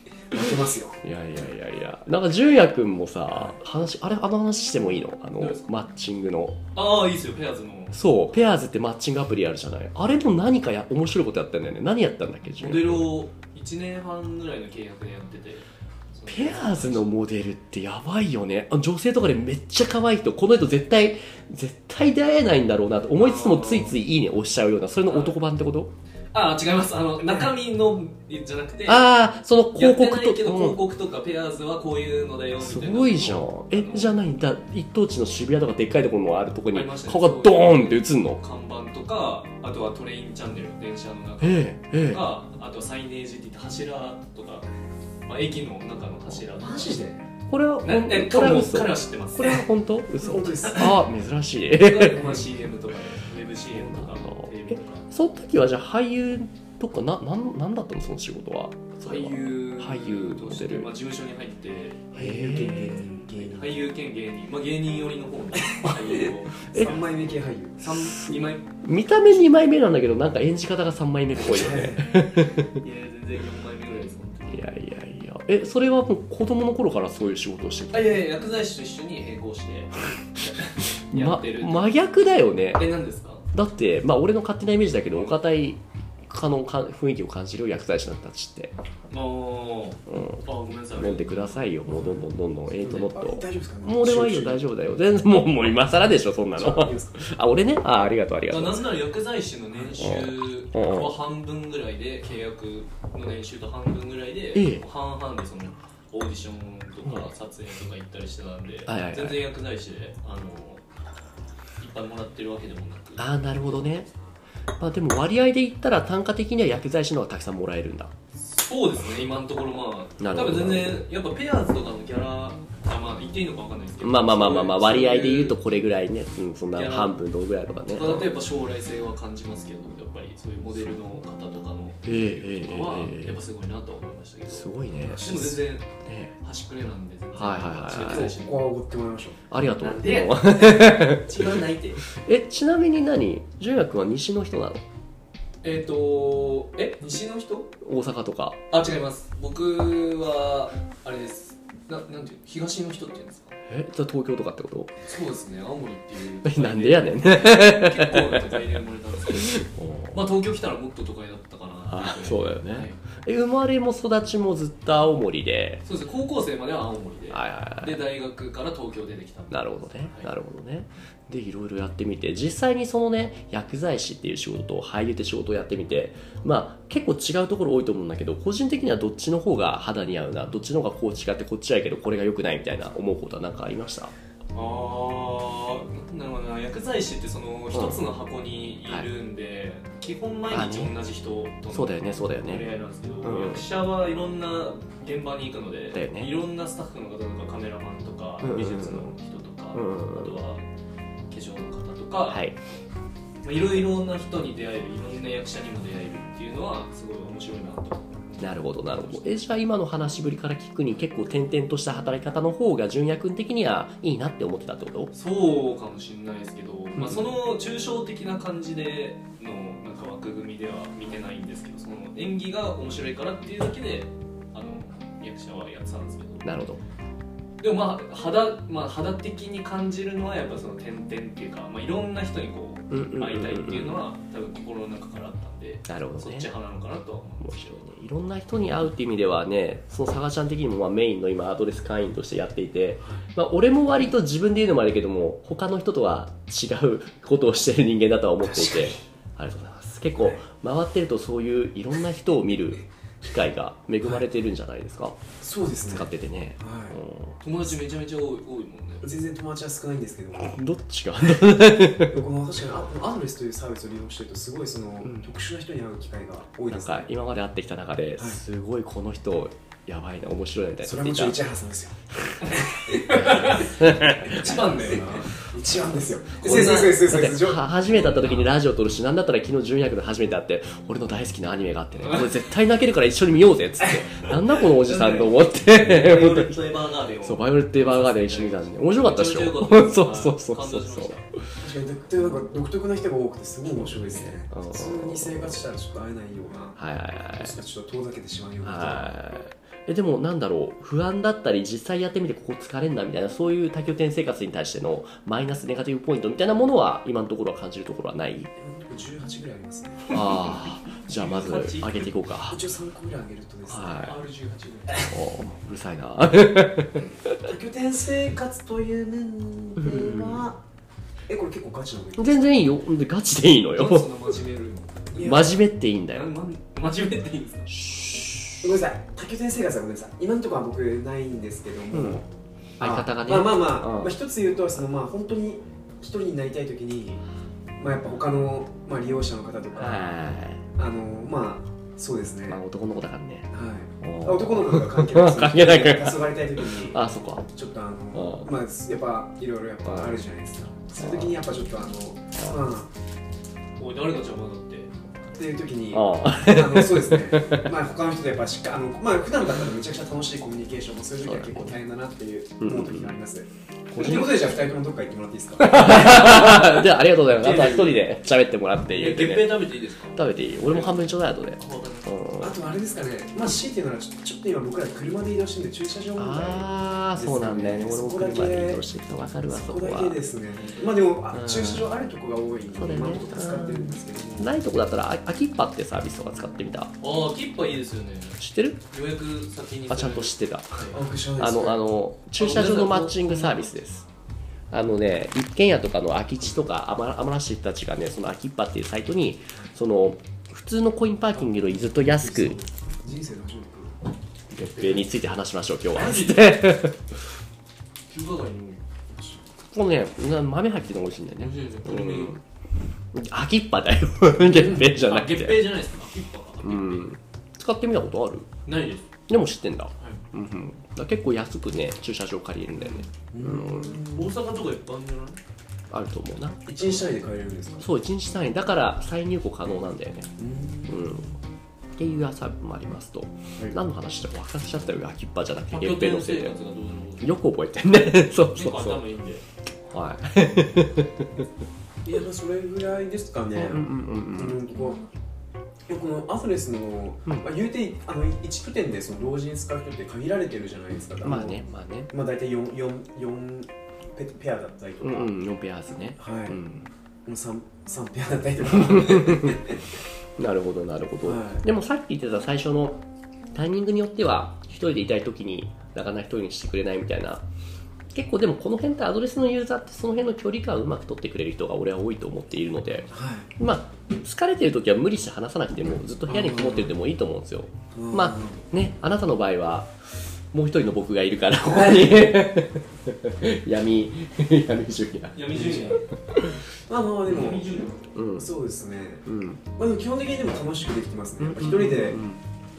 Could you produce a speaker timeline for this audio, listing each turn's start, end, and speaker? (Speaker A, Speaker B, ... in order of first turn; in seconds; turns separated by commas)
Speaker A: 0.3-1.0, Speaker B: 0.3-6.6, Speaker C: 5.4-5.7, Speaker C: 6.7-8.0, Speaker B: 7.9-13.1, Speaker C: 12.6-17.1, Speaker B: 16.3-25.9, Speaker C: 23.2-23.9, Speaker C: 25.1-25.4, Speaker C: 26.3-29.1, Speaker B: 28.9-30.8, Speaker C: 29.7-34.2, Speaker B: 32.6-38.4, Speaker C: 36.7-44.6, Speaker B: 41.4-42.2, Speaker C: 45.2-47.0, Speaker A: 46.6-47.2, Speaker B: 47.5-52.4, Speaker C: 47.8-49.6, Speaker A: 50.2-51.0, Speaker C: 51.7-55.0, Speaker B: 53.7-60.9, Speaker C: 59.0-62.1, Speaker B: 62.1-63.1, Speaker A: 62.1-63.9, Speaker C: 63.4-67.1, Speaker A: 65.6-67.8, Speaker B: 66.7-67.0, Speaker C: 67.8-68.8, Speaker B: 67.8-72.7, Speaker A: 71.4-72.1, Speaker C: 72.4-74.7, Speaker B: 74.5-78.2, Speaker C: 77.9-82.0, Speaker B: 81.1-82.9, Speaker C: 82.7-83.5, Speaker B: 83.5-88.7, Speaker C: 89.1-91.6, Speaker B: 90.1-90.4, Speaker B: 90.9-98.9, Speaker A: 91.9-92.2, Speaker A: 92.8-94.6, Speaker A: 96.5-97.2, Speaker C: 98.5-110.8, Speaker B: 100.0-101.2, Speaker B: 104.5-104.8, Speaker B: 107.0-107.3, Speaker B: 108.9-109.4, Speaker C: 111.8-113.3, Speaker B: 113.2-114.1, Speaker B: 114.8-118.1, Speaker C: 118.4-125.6, Speaker B: 120.2-121.0, Speaker B: 124.0-128.3, Speaker C: 126.7-127.2, Speaker C: 127.9-138.6, Speaker B: 132.0-133.4, Speaker B: 134.5-136.3, Speaker A: 135.1-135.4, Speaker B: 137.3-138.3, Speaker A: 137.9-139.4, Speaker B: 139.5-144.8, Speaker C: 139.8-142.0, Speaker C: 145.6-147.7, Speaker B: 147.8-148.6, Speaker C: 148.7-153.6, Speaker B: 153.7-154.9, Speaker C: 155.0-163.0, Speaker B: 156.4-160.2, Speaker B: 161.9-165.8, Speaker C: 165.8-170.3, Speaker B: 167.3-168.0, Speaker B: 169.5-184.1, Speaker C: 184.5-200.6, Speaker B: 187.7-188.0, Speaker B: 190.5-190.9, Speaker B: 191.7-192.7, Speaker B: 193.2-193.6, Speaker B: 195.9-196.3, Speaker B: 198.4-199.1, Speaker B: 199.7-200.4, Speaker C: 201.3-202.4, Speaker B: 202.3-202.6, Speaker C: 203.4-209.4, Speaker B: 208.4-215.1, Speaker C: 215.1-226.4, Speaker B: 216.9-217.3, Speaker B: 226.4-226.8, Speaker C: 227.6-237.8, Speaker B: 232.9-234.0, Speaker B: 235.9-236.5, Speaker B: 237.4-255.2, Speaker A: 248.4-249.0, Speaker A: 255.4-257.0, Speaker B: 255.9-257.4, Speaker C: 257.4-259.1, Speaker A: 259.0-260.6, Speaker B: 260.4-262.2, Speaker A: 261.2-267.1, Speaker B: 265.0-265.3, Speaker B: 266.7-271.4, Speaker A: 270.8-273.6, Speaker C: 272.5-275.5, Speaker B: 273.2-274.8, Speaker A: 274.3-277.8, Speaker C: 276.4-277.0, Speaker B: 276.4-286.7, Speaker C: 277.9-278.5, Speaker C: 284.8-291.2, Speaker B: 287.2-291.4, Speaker A: 291.6-296.8, Speaker B: 293.7-295.6, Speaker B: 296.8-297.6, Speaker A: 297.3-299.1, Speaker B: 298.6-308.5, Speaker A: 308.6-310.2, Speaker B: 310.1-312.6, Speaker C: 311.0-312.1, Speaker A: 312.5-314.1, Speaker B: 313.7-314.2, Speaker C: 314.0-315.1, Speaker B: 315.1-317.5, Speaker A: 317.4-320.6, Speaker B: 319.8-320.5, Speaker A: 321.3-322.6, Speaker B: 322.2-324.1, Speaker C: 323.7-325.1, Speaker A: 325.1-325.6, Speaker B: 325.2-326.3, Speaker C: 326.1-327.7, Speaker B: 327.7-328.8, Speaker A: 328.6-332.2, Speaker B: 331.9-332.2, Speaker B: 332.8-334.1, Speaker A: 332.8-337.2, Speaker A: 337.8-340.1, Speaker B: 339.8-340.6, Speaker A: 340.8-342.6, Speaker B: 342.5-343.5, Speaker A: 343.5-352.9, Speaker B: 344.0-347.5, Speaker B: 348.1-348.5, Speaker B: 349.8-350.2, Speaker B: 351.0-351.4, Speaker C: 353.8-354.9, Speaker A: 355.3-366.6, Speaker B: 355.9-357.7, Speaker B: 361.2-361.8, Speaker B: 362.6-363.1, Speaker B: 363.9-364.5, Speaker B: 365.6-372.6, Speaker C: 366.3-366.6, Speaker C: 367.4-368.0, Speaker C: 368.9-372.1, Speaker A: 372.4-378.8, Speaker B: 376.2-380.2, Speaker A: 379.5-384.5, Speaker B: 381.3-381.9, Speaker B: 382.7-386.9, Speaker C: 387.0-391.0, Speaker B: 388.4-388.8, Speaker B: 389.9-394.0, Speaker A: 390.9-391.8, Speaker C: 392.4-393.9, Speaker B: 394.7-402.6, Speaker A: 401.5-404.0, Speaker B: 404.5-407.1, Speaker C: 404.8-405.0, Speaker C: 405.9-406.8, Speaker C: 408.1-408.8, Speaker A: 409.1-409.4, Speaker B: 409.7-412.4, Speaker C: 411.4-412.4, Speaker B: 413.1-415.8, Speaker C: 414.4-417.1, Speaker B: 416.6-418.5, Speaker C: 418.6-419.1, Speaker B: 419.3-424.0, Speaker C: 422.7-423.1, Speaker A: 423.3-424.3, Speaker C: 424.1-425.4, Speaker B: 425.9-426.6, Speaker A: 426.6-427.9, Speaker B: 427.8-430.3, Speaker A: 430.4-431.2, Speaker B: 430.9-431.3, Speaker B: 431.9-436.6, Speaker C: 435.7-437.4, Speaker B: 437.2-439.0, Speaker C: 438.5-439.4, Speaker B: 439.9-441.5, Speaker A: 442.0-445.0, Speaker B: 443.5-444.6, Speaker A: 445.9-455.3, Speaker B: 451.2-452.1, Speaker B: 455.0-456.9, Speaker A: 456.2-456.6, Speaker A: 457.2-459.8, Speaker B: 458.7-459.7, Speaker B: 460.4-463.0, Speaker A: 461.2-461.6, Speaker B: 463.5-467.4, Speaker B: 468.1-486.6, Speaker A: 473.1-473.5, Speaker A: 476.3-476.9, Speaker A: 477.9-478.6, Speaker C: 485.3-486.0, Speaker A: 485.5-485.9, Speaker A: 486.9-487.7, Speaker C: 487.3-488.0, Speaker B: 487.3-487.6, Speaker B: 488.1-488.5, Speaker A: 488.4-492.2, Speaker B: 489.2-489.6, Speaker B: 491.4-492.4